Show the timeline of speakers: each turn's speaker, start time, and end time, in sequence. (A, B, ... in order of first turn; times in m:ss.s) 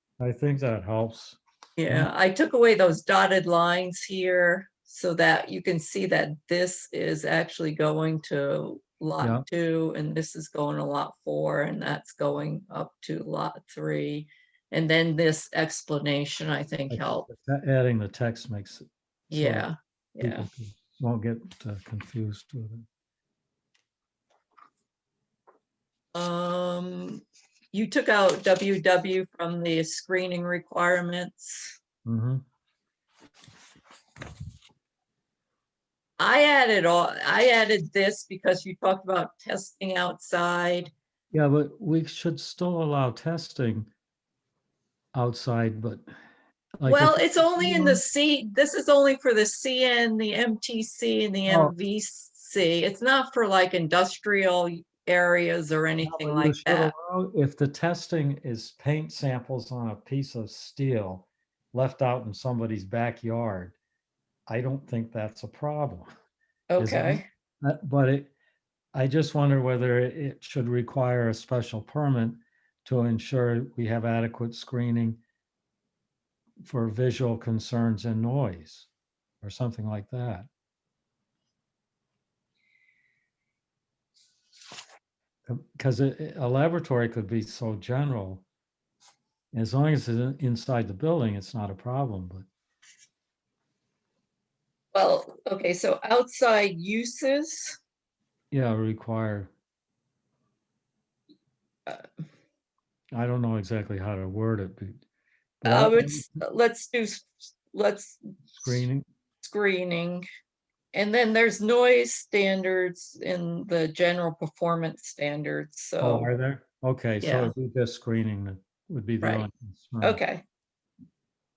0:00.2-0:02.1 A
0:01.8-0:17.3 B
0:16.9-0:19.7 A
0:19.3-0:20.5 B
0:20.2-0:22.8 A
0:26.1-0:31.8 B
0:32.0-0:32.4 A
0:36.2-0:40.9 B
0:41.3-0:43.9 A
0:45.1-0:46.0 A
0:46.8-0:48.0 A
0:46.8-0:56.9 B
0:51.5-0:51.7 A
0:56.0-1:03.8 A
1:04.5-1:06.1 A
1:06.7-1:07.2 B
1:06.8-1:08.3 A
1:08.9-1:15.2 A
1:16.6-1:18.9 A
1:19.4-1:20.5 A
1:25.5-1:28.4 A
1:29.5-1:32.4 A
1:34.9-1:37.8 B
1:38.5-1:39.5 A
1:43.1-1:45.0 A
1:45.6-1:46.4 A
1:45.6-1:48.8 B
1:48.6-1:49.0 A
1:49.4-1:50.2 B
1:50.9-1:56.3 B
1:56.0-2:00.2 A
1:57.2-1:57.5 B
1:59.2-1:59.5 B
2:00.0-2:00.4 B